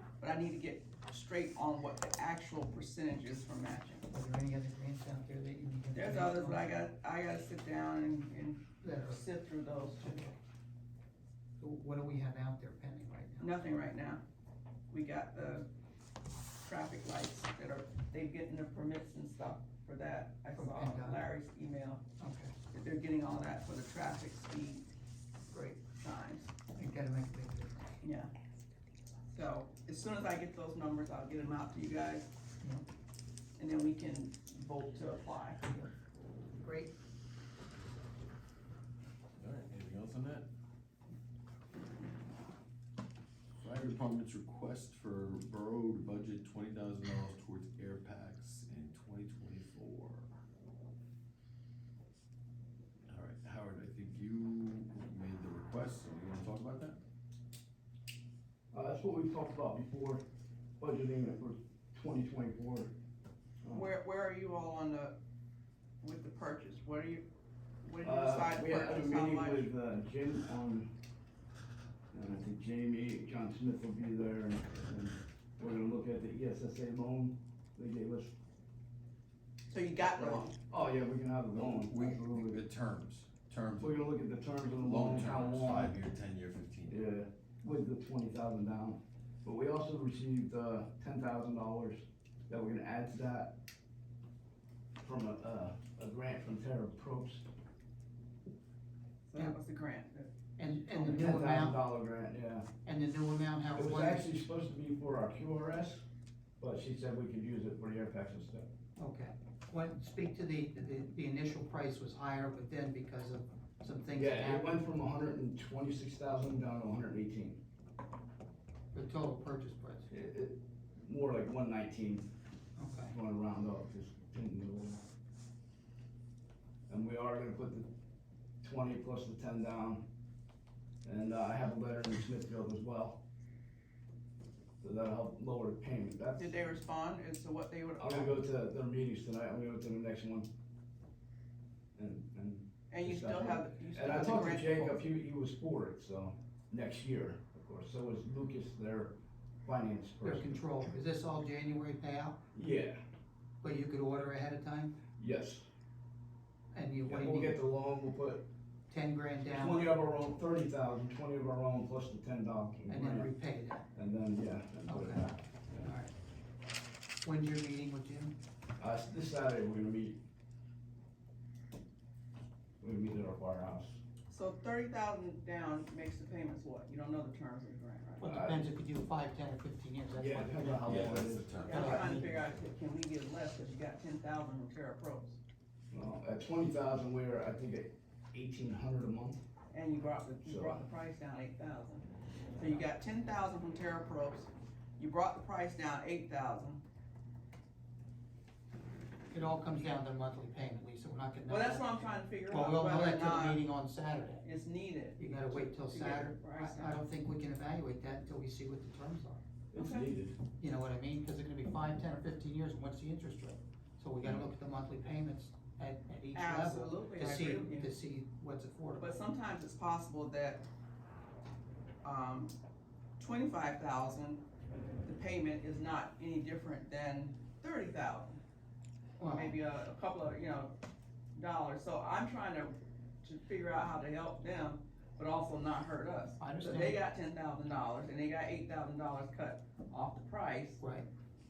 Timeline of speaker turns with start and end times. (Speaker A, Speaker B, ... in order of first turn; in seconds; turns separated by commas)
Speaker A: 0.2-4.0, Speaker B: 4.1-6.6, Speaker A: 5.9-10.3, Speaker B: 8.8-9.2, Speaker B: 10.0-10.3, Speaker B: 11.6-13.7, Speaker A: 13.4-14.2, Speaker A: 14.9-15.7, Speaker A: 16.6-22.0, Speaker B: 20.5-21.2, Speaker B: 22.2-22.5, Speaker A: 22.7-24.8, Speaker B: 25.5-25.8, Speaker A: 25.9-26.5, Speaker B: 26.7-27.9, Speaker A: 28.0-28.3, Speaker A: 29.3-32.3, Speaker A: 33.6-35.7, Speaker B: 36.6-36.9, Speaker C: 39.4-40.5, Speaker C: 43.6-50.3, Speaker C: 53.1-57.0, Speaker D: 58.7-60.2, Speaker D: 60.8-62.9, Speaker D: 63.6-63.9, Speaker A: 63.7-65.1, Speaker A: 66.0-67.2, Speaker A: 67.8-69.7, Speaker D: 68.0-70.9, Speaker D: 72.1-78.3, Speaker A: 79.7-80.5, Speaker D: 80.2-82.6, Speaker C: 81.5-84.0, Speaker D: 83.8-86.0, Speaker C: 84.7-87.0, Speaker D: 86.9-93.5, Speaker D: 95.0-97.5, Speaker A: 99.3-101.1, Speaker B: 100.6-101.8, Speaker D: 101.0-102.7, Speaker B: 102.8-104.3, Speaker D: 103.7-106.0, Speaker D: 106.6-108.7, Speaker B: 109.0-114.8, Speaker D: 114.1-117.6, Speaker B: 118.9-120.1, Speaker D: 120.1-122.3, Speaker B: 122.8-123.1, Speaker D: 123.1-125.0, Speaker D: 126.9-127.9, Speaker D: 128.6-130.1, Speaker D: 131.0-133.2, Speaker D: 134.8-136.6, Speaker A: 136.4-138.4, Speaker D: 138.0-140.5, Speaker D: 141.9-150.6, Speaker A: 142.9-145.0, Speaker B: 150.2-152.4, Speaker D: 152.5-153.0, Speaker B: 153.6-155.0, Speaker D: 155.2-155.7, Speaker B: 156.7-157.6, Speaker D: 157.1-158.4, Speaker B: 158.9-159.9, Speaker D: 159.5-163.3, Speaker B: 162.9-163.9, Speaker D: 163.9-165.9, Speaker B: 164.8-165.3, Speaker B: 165.8-166.1, Speaker B: 167.2-168.3, Speaker D: 168.8-170.2, Speaker D: 172.8-174.0, Speaker A: 174.3-178.4, Speaker B: 178.2-181.0, Speaker D: 178.2-178.7, Speaker D: 180.2-182.4, Speaker C: 180.8-182.1, Speaker A: 181.6-185.4, Speaker B: 181.6-182.4, Speaker D: 185.9-189.4, Speaker A: 189.7-196.8, Speaker D: 190.4-190.8, Speaker B: 199.3-201.9, Speaker A: 201.5-203.6, Speaker B: 202.5-204.4, Speaker A: 204.4-207.1, Speaker B: 205.2-209.4, Speaker D: 209.7-210.4, Speaker A: 209.7-210.1, Speaker B: 210.5-219.1, Speaker D: 214.2-214.5, Speaker A: 216.3-217.9, Speaker A: 219.0-220.6, Speaker A: 222.0-222.5, Speaker A: 223.2-224.4, Speaker A: 225.1-228.4, Speaker B: 229.2-229.6, Speaker A: 229.3-230.7, Speaker A: 231.3-240.8, Speaker B: 236.4-237.0, Speaker B: 240.8-241.1